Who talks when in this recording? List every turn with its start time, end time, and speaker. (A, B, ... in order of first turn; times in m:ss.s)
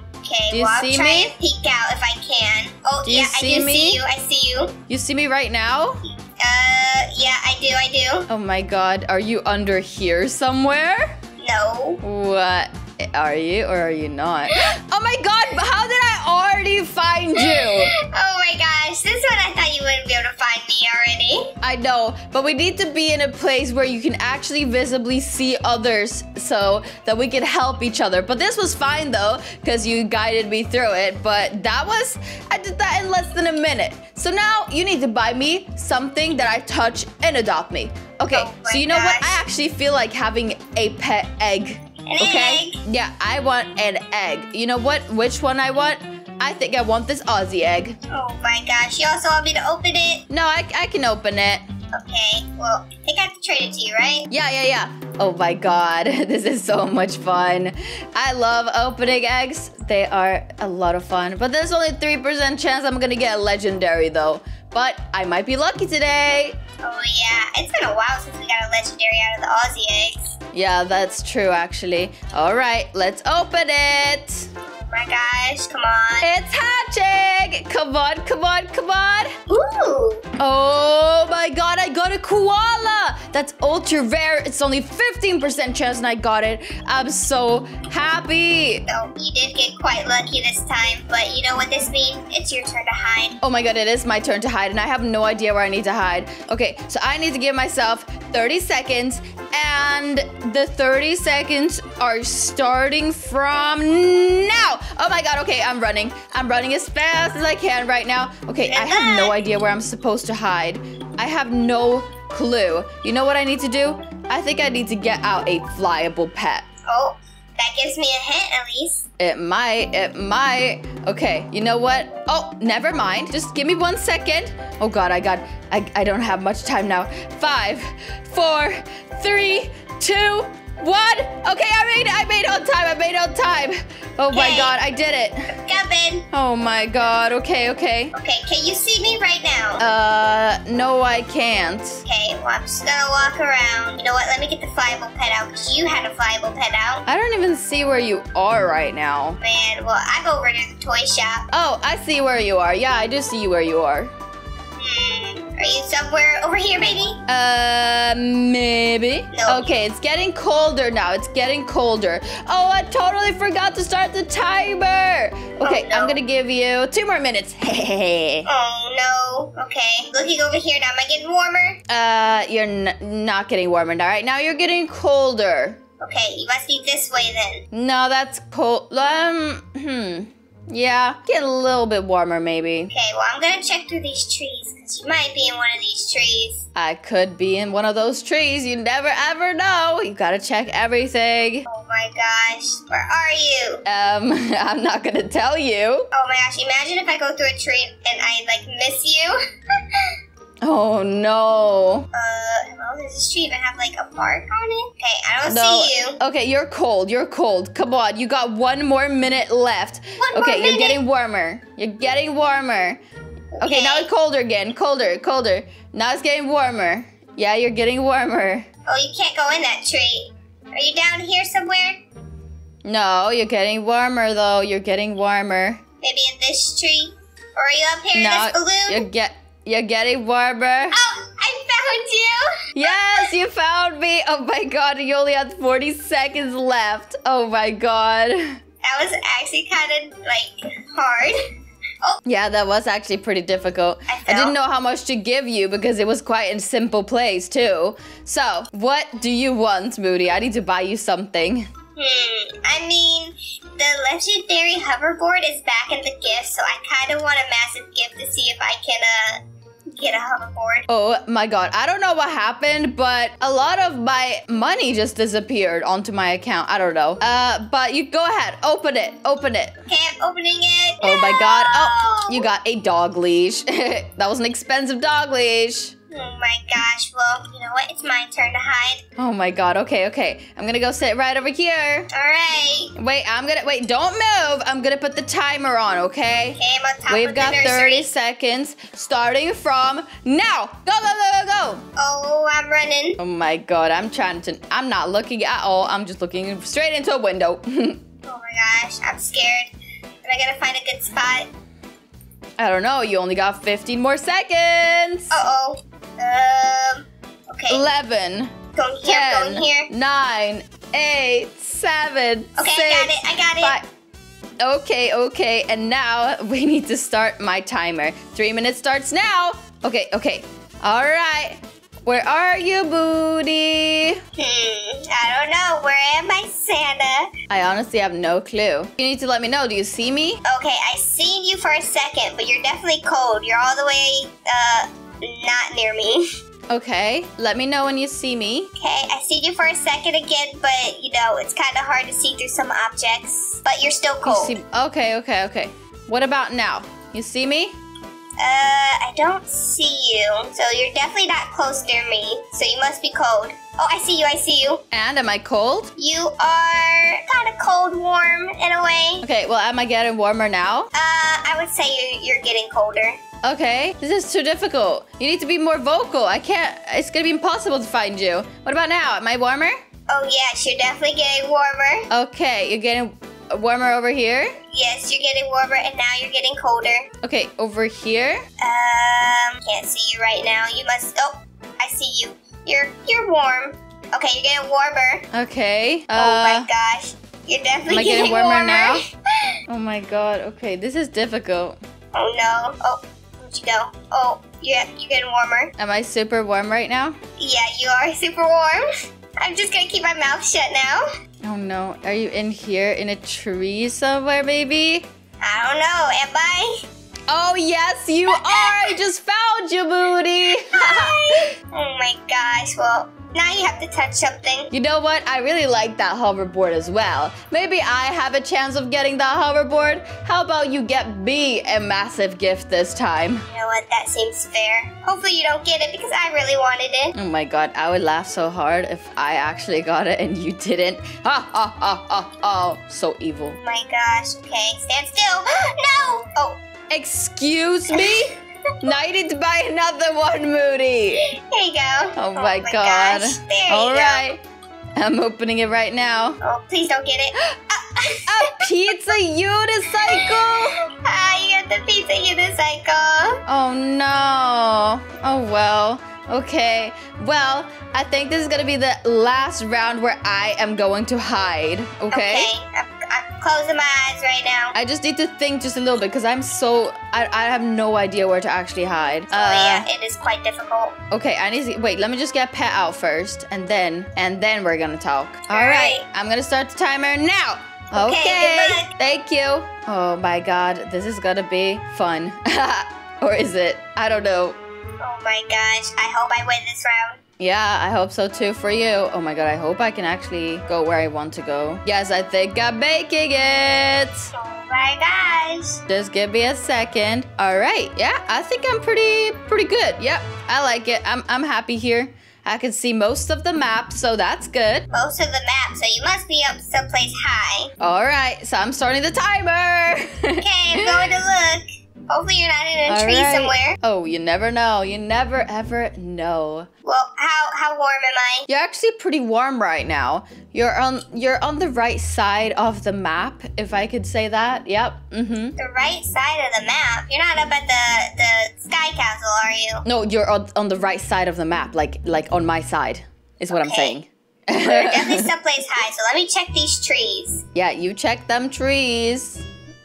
0:00.2-0:04.8 A
0:00.5-0:01.3 B
0:03.0-0:04.0 B
0:04.9-0:06.0 B
0:06.0-0:08.3 A
0:08.3-0:11.2 B
0:11.4-0:12.0 A
0:12.0-0:17.9 B
0:17.4-0:21.5 A
0:21.6-0:48.0 B
0:38.3-0:39.4 A
0:42.0-0:42.8 A
0:48.1-0:50.2 A
0:50.3-0:51.6 B
0:51.9-0:54.3 A
0:54.3-1:06.6 B
1:06.8-1:10.4 A
1:10.5-1:14.5 B
1:14.7-1:16.3 A
1:16.2-1:19.4 B
1:19.5-1:20.2 A
1:20.4-1:28.8 B
1:28.9-1:33.4 A
1:33.4-1:56.7 B
1:48.7-1:49.4 A
1:56.9-1:59.1 A
1:59.2-2:15.5 B
2:14.3-2:14.8 A
2:15.5-2:16.3 A
2:16.3-2:18.1 B
2:18.1-2:19.8 A
2:19.8-2:22.0 B
2:22.0-2:27.0 A
2:27.0-2:29.4 B
2:29.4-2:31.5 A
2:31.5-2:34.1 B
2:34.8-2:37.2 A
2:37.3-2:48.5 B
2:39.3-2:39.7 A
2:45.6-2:46.2 A
2:48.4-2:51.8 A
2:51.9-2:55.8 B
2:56.0-2:57.6 A
2:57.7-3:02.9 B
3:02.9-3:06.6 A
3:06.7-3:11.6 B
3:11.7-3:13.8 A
3:13.8-3:16.1 B
3:16.1-3:19.4 A
3:20.6-3:22.1 B
3:22.1-3:26.2 A
3:25.4-3:33.0 B
3:30.2-3:31.0 A
3:33.6-3:34.1 A
3:33.6-3:38.7 B
3:38.9-3:42.0 A
3:42.8-3:45.8 B
3:46.0-3:49.1 A
3:48.1-3:51.0 B
3:50.9-3:53.3 A
3:52.7-3:58.6 B
3:58.8-4:01.4 A
4:02.2-4:11.7 B
4:04.1-4:04.5 A
4:12.0-4:20.9 A
4:20.9-4:29.7 B
4:29.9-4:32.5 A
4:31.0-4:35.9 B
4:36.1-4:39.0 A
4:39.2-4:42.1 B
4:42.1-4:42.9 A
4:42.9-4:51.8 B
4:46.6-4:48.1 A
4:52.0-4:53.2 A
4:53.2-4:58.0 B
4:58.2-4:59.7 A
5:00.2-5:01.5 A
5:02.6-5:05.3 B
5:05.3-5:07.8 A
5:07.7-5:13.8 B
5:08.7-5:09.9 A
5:12.6-5:13.8 A
5:14.6-5:24.2 B
5:24.4-5:27.3 A
5:27.5-5:30.4 B
5:30.4-5:36.3 A
5:36.7-5:38.7 B
5:38.8-5:44.5 A
5:44.2-5:47.8 B
5:48.4-5:54.8 A
5:54.9-5:55.9 B
5:56.0-5:59.2 A
5:59.2-6:00.9 B
6:00.9-6:03.2 A
6:03.4-6:09.8 B
6:10.1-6:12.1 A
6:12.1-6:14.6 B
6:14.7-6:17.1 A
6:17.2-6:18.4 B
6:18.6-6:25.3 A
6:25.3-6:26.7 B
6:26.1-6:29.5 A
6:27.9-6:29.0 B
6:29.7-6:31.8 B
6:32.1-6:35.7 A
6:35.8-6:37.2 B
6:37.4-6:38.8 A
6:39.4-6:41.0 A
6:41.4-6:45.1 B
6:45.4-6:46.8 A
6:47.3-6:51.4 B
6:48.3-6:48.9 A
6:50.7-6:54.7 A
6:54.7-7:03.4 B
7:03.5-7:07.1 A
7:07.1-7:13.6 B
7:13.6-7:16.6 A
7:16.9-7:21.3 B
7:17.9-7:18.3 A
7:21.3-7:24.2 A
7:22.2-7:24.4 B
7:25.0-7:26.4 B
7:26.4-7:28.6 A
7:28.3-7:30.8 B
7:30.0-7:33.4 A
7:33.4-7:42.5 B
7:42.1-7:44.7 A
7:44.7-7:49.9 B
7:49.3-7:51.0 A
7:51.1-8:04.6 B
7:55.5-7:56.0 A
7:57.9-7:58.9 A
8:05.0-8:07.2 A
8:07.4-8:14.3 B
8:14.3-8:15.8 A
8:15.9-8:24.9 B
8:24.9-8:27.7 A
8:27.8-8:31.1 B
8:30.4-8:33.8 A
8:32.9-8:36.7 B
8:36.8-8:38.5 A
8:38.5-8:45.6 B
8:45.6-8:49.8 A
8:49.8-8:55.3 B
8:53.5-8:53.9 A
8:54.6-8:57.4 A
8:57.5-8:59.4 B